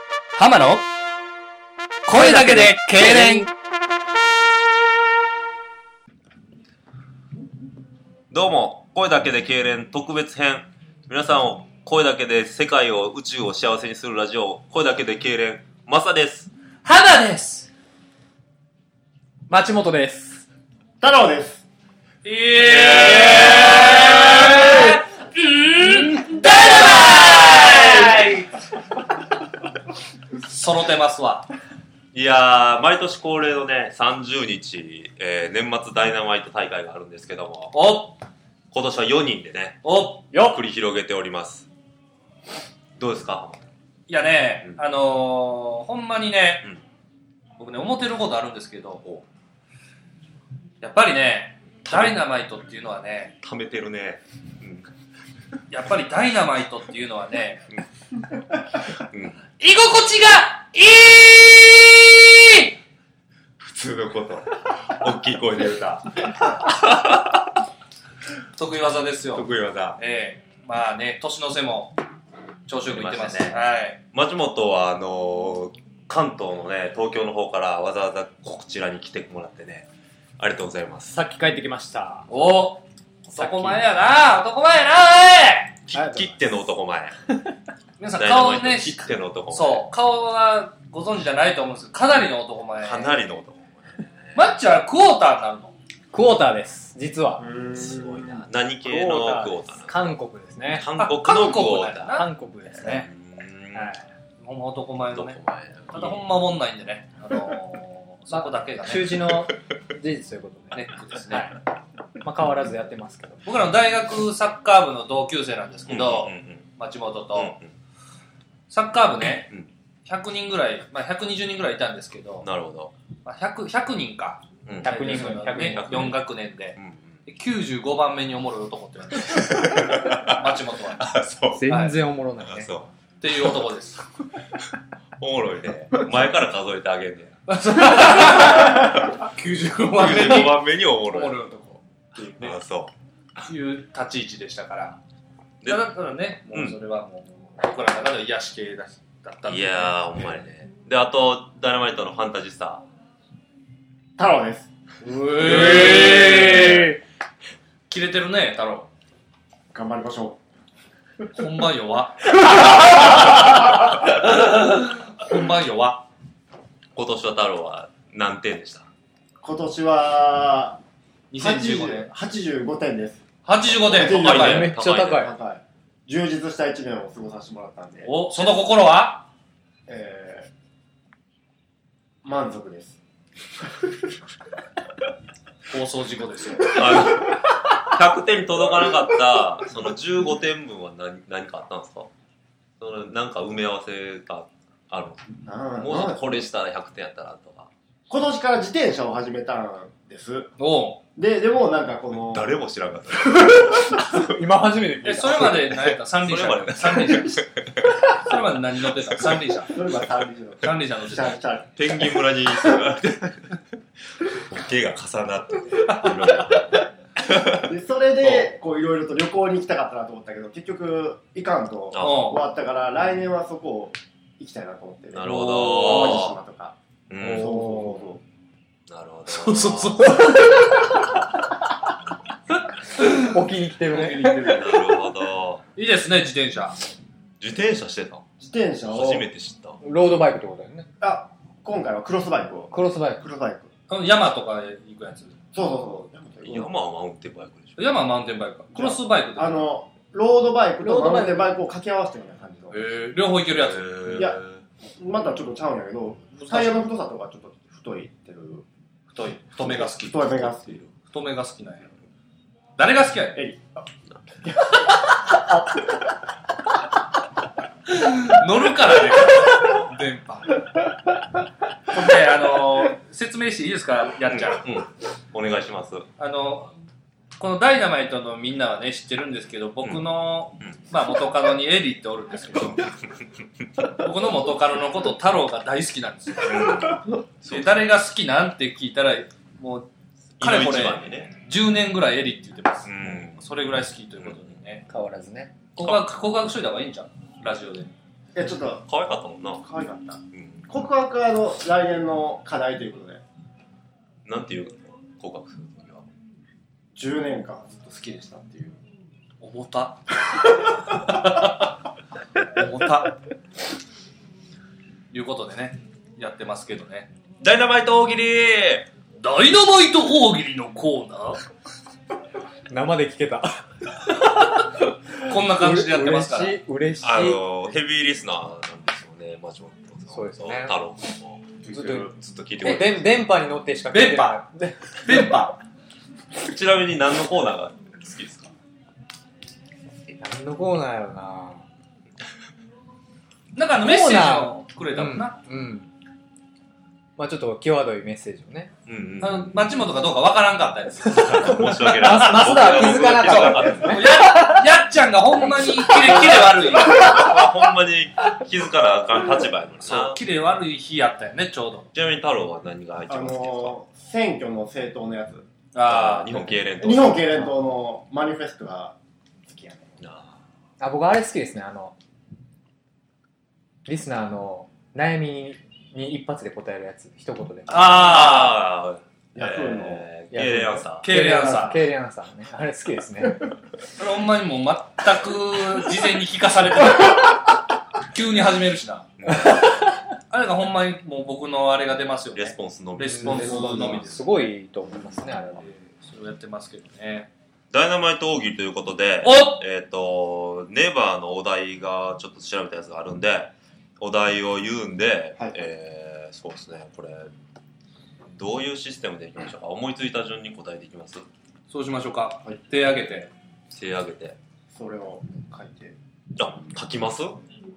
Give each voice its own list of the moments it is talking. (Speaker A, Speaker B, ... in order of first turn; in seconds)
Speaker A: 0.4-0.9, 2.1-3.5, 16.8-17.7, 22.2-28.4, 30.4-31.5, 37.7-38.2, 39.8-40.3, 44.1-46.7, 47.6-49.0, 50.8-53.4, 55.7-57.7, 59.6-62.7, 68.5-72.0, 72.7-74.0, 82.3-85.8, 88.0-93.2, 94.3-95.8, 101.0-102.9, 104.4-109.2, 110.7-111.6, 113.4-117.6, 118.7-119.5, 120.1-122.5, 123.2-131.2, 131.7-132.0, 133.2-134.0, 137.5-142.6, 143.5-145.0, 145.6-150.4, 155.0-157.0, 157.9-158.9, 161.3-166.1, 171.3-172.1, 173.4-174.7, 178.1-179.3, 185.7-187.2, 200.6-201.0, 205.0-207.5, 208.1-209.8, 210.6-211.4, 215.9-216.2, 222.0-222.4, 225.3-226.2, 229.3-231.0, 233.0-233.2, 233.9-235.0, 235.8-236.8, 243.9-245.4, 247.8-249.7, 252.7-254.4, 256.4-256.8, 259.1-261.9, 262.8-263.4, 267.9-270.6, 271.9-274.7, 276.2-276.7, 277.4-282.9, 284.0-286.9, 287.5-294.9, 295.8-297.9, 309.4-310.2, 310.9-311.6, 312.5-313.1, 315.1-317.1, 319.2-321.4, 325.2-326.6, 333.9-334.4, 335.0-335.6, 343.5-345.4, 349.2-357.4, 359.8-361.9, 365.7-366.5, 377.7-378.7, 381.0-381.9, 384.0-389.1, 390.3-394.4, 395.6-397.3, 399.2-399.6, 411.7-413.3
Speaker B: 2.1-3.5, 8.3-16.5, 27.8-28.2, 32.1-37.8, 38.7-41.7, 43.0-43.7, 51.9-52.2, 53.4-54.9, 58.8-59.4, 63.6-67.4, 69.3-70.0, 72.9-73.6, 74.1-81.2, 85.9-87.2, 88.2-89.9, 92.8-94.4, 97.7-102.2, 102.8-104.0, 105.1-106.3, 115.9-116.7, 117.3-117.7, 122.4-122.9, 124.7-127.2, 129.2-131.8, 132.4-132.9, 135.2-137.4, 139.9-141.4, 142.2-142.9, 145.6-145.9, 146.5-146.8, 149.5-152.8, 166.9-168.9, 173.9-175.3, 186.6-192.1, 192.8-195.2, 195.8-197.7, 202.2-204.2, 205.4-208.1, 211.8-213.6, 214.2-218.5, 221.9-222.4, 225.1-226.4, 227.1-227.6, 228.9-230.4, 234.4-235.6, 237.4-238.2, 238.9-239.8, 246.4-247.9, 253.5-254.6, 260.6-260.9, 274.3-276.1, 282.5-282.9, 286.4-287.9, 290.4-291.3, 292.9-293.5, 294.2-294.6, 295.8-296.1, 298.9-299.6, 300.3-300.7, 304.2-306.1, 317.4-318.9, 327.0-333.3, 336.4-338.5, 348.9-349.7, 351.1-354.2, 355.4-360.2, 361.9-363.8, 365.9-367.3, 370.0-370.4, 377.7-381.2, 389.2-389.7, 392.3-393.8, 397.7-407.3, 408.3-411.3, 413.7-414.4, 416.4-417.4
Speaker C: 19.5-20.5, 24.6-25.0, 40.3-40.6, 81.1-82.3, 83.4-83.8, 85.9-86.3, 96.1-97.5, 98.8-100.9, 102.1-103.1, 103.7-104.0, 108.3-111.6, 112.2-113.4, 124.8-126.1, 131.5-132.7, 155.3-157.0, 174.2-175.3, 204.1-205.9, 227.2-228.0, 233.0-234.6, 239.8-240.9, 242.7-243.2, 250.8-251.5, 294.9-295.5, 322.7-323.6, 324.2-324.6, 325.2-327.4, 330.1-330.8, 331.7-335.3, 340.2-341.6, 343.8-345.9, 347.2-348.7, 351.2-354.7, 370.8-371.9, 373.9-378.2, 380.3-383.5, 389.4-389.7, 393.1-395.7
Speaker D: 21.0-21.6, 97.4-98.4, 154.2-154.7, 155.7-156.7, 159.7-160.4, 169.4-170.8, 171.4-178.1, 179.9-180.5, 182.2-183.0, 195.4-196.2, 198.1-200.5, 201.2-202.6, 203.3-204.0, 209.7-212.7, 217.5-226.8, 227.3-228.2, 238.4-239.3, 241.0-243.7, 245.5-246.7, 248.7-252.8, 255.0-258.6, 259.6-260.8, 298.4-298.9, 299.6-303.2, 306.9-308.8, 331.6-332.1, 363.1-365.5, 366.8-368.9, 369.5-370.0, 379.4-380.1, 393.4-394.0, 414.7-416.0